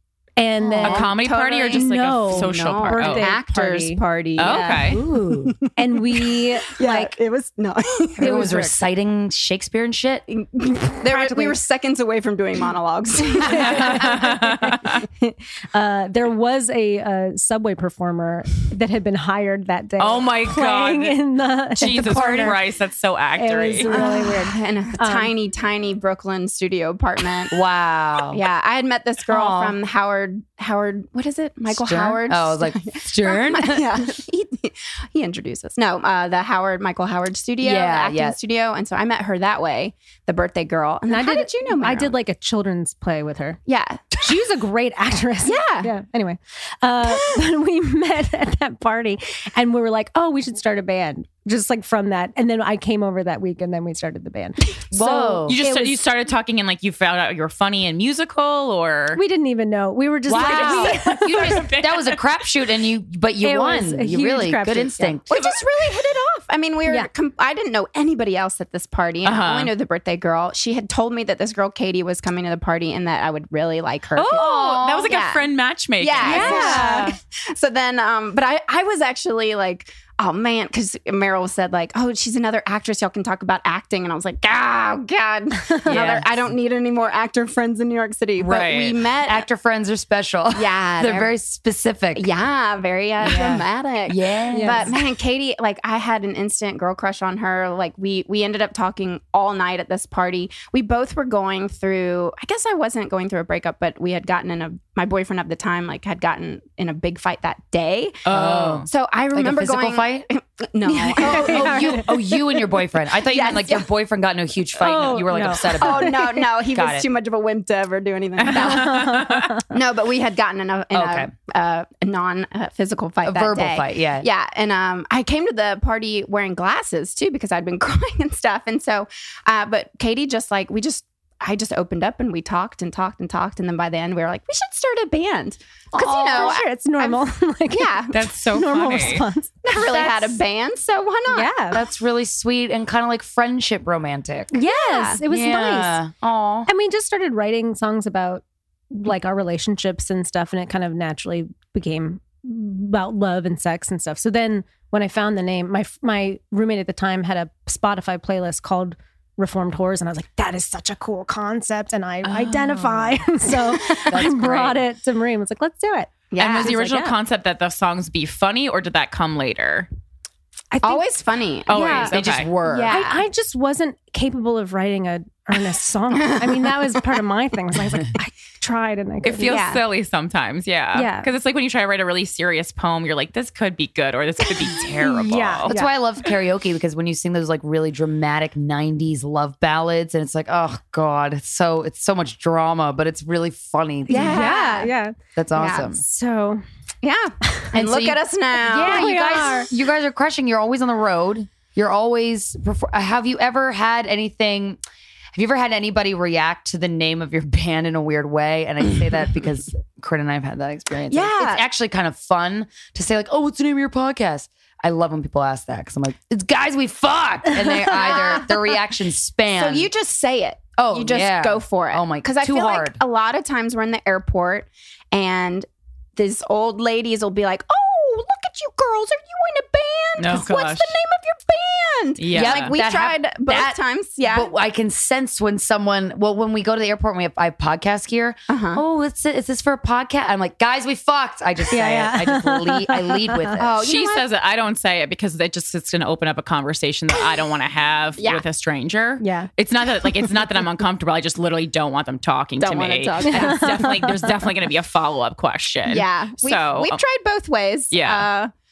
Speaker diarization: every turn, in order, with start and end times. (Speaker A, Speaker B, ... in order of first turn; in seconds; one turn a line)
Speaker A: 0.4-1.2
Speaker B: 0.6-8.6
Speaker C: 0.8-3.3
Speaker A: 1.7-4.8
Speaker C: 4.4-5.0
Speaker D: 4.6-5.5
Speaker A: 5.8-7.1
Speaker D: 8.2-10.2
Speaker A: 8.2-8.7
Speaker B: 10.3-14.3
Speaker A: 11.0-11.6
Speaker A: 13.4-22.6
Speaker C: 13.5-15.0
Speaker C: 20.0-21.2
Speaker C: 21.8-24.0
Speaker D: 21.8-22.5
Speaker A: 23.4-25.3
Speaker B: 23.8-27.5
Speaker D: 27.5-28.4
Speaker B: 28.3-42.1
Speaker D: 29.3-29.8
Speaker D: 31.7-34.0
Speaker D: 37.6-38.4
Speaker A: 41.1-43.6
Speaker B: 43.7-44.3
Speaker A: 44.2-56.0
Speaker B: 45.4-45.9
Speaker D: 54.9-55.6
Speaker C: 55.5-59.2
Speaker A: 59.1-61.6
Speaker D: 60.3-65.3
Speaker C: 60.3-62.2
Speaker A: 63.4-65.2
Speaker B: 65.2-75.5
Speaker C: 65.3-65.6
Speaker C: 69.2-69.7
Speaker C: 74.1-77.0
Speaker D: 74.3-75.1
Speaker B: 76.0-89.5
Speaker A: 76.2-77.1
Speaker D: 85.9-86.3
Speaker C: 88.4-88.9
Speaker D: 89.2-92.3
Speaker B: 90.5-91.3
Speaker B: 92.1-108.3
Speaker D: 93.2-94.9
Speaker A: 94.5-94.9
Speaker C: 108.2-108.9
Speaker D: 108.3-110.3
Speaker B: 108.9-112.1
Speaker A: 110.8-112.7
Speaker D: 111.2-117.0
Speaker B: 113.2-113.9
Speaker A: 114.8-116.5
Speaker B: 115.7-119.1
Speaker C: 118.4-119.6
Speaker A: 118.5-119.6
Speaker B: 119.7-138.2
Speaker D: 120.9-121.3
Speaker D: 123.2-124.3
Speaker D: 135.9-136.6
Speaker A: 136.0-139.6
Speaker C: 138.1-139.2
Speaker B: 139.6-141.6
Speaker D: 139.7-140.4
Speaker A: 141.3-141.8
Speaker D: 141.7-144.5
Speaker A: 144.5-146.0
Speaker B: 144.6-145.2
Speaker D: 145.2-146.7
Speaker A: 146.7-167.1
Speaker B: 163.7-164.2
Speaker D: 164.1-164.8
Speaker B: 166.3-166.7
Speaker C: 166.4-169.9
Speaker A: 170.7-171.0
Speaker B: 170.8-173.2
Speaker C: 171.7-172.5
Speaker A: 171.7-172.0
Speaker D: 172.0-172.9
Speaker A: 172.9-179.6
Speaker B: 176.2-176.6
Speaker C: 179.2-185.7
Speaker B: 179.4-179.8
Speaker A: 180.9-181.3
Speaker A: 184.6-185.9
Speaker D: 185.7-194.4
Speaker A: 194.1-195.2
Speaker B: 194.1-194.9
Speaker D: 195.3-196.0
Speaker B: 195.5-195.9
Speaker A: 195.9-196.6
Speaker B: 197.0-199.5
Speaker D: 197.7-204.8
Speaker A: 198.7-199.7
Speaker D: 205.3-219.9
Speaker B: 211.1-211.7
Speaker B: 217.8-218.8
Speaker B: 219.5-234.5
Speaker D: 220.8-223.0
Speaker C: 230.2-230.9
Speaker C: 232.2-232.7
Speaker D: 232.3-233.8
Speaker D: 234.3-243.6
Speaker B: 238.5-238.8
Speaker A: 241.7-243.7
Speaker B: 243.6-244.3
Speaker C: 243.8-257.0
Speaker B: 248.2-248.4
Speaker A: 249.2-249.5
Speaker B: 252.6-253.9
Speaker A: 253.2-254.3
Speaker B: 255.9-258.5
Speaker C: 257.9-258.2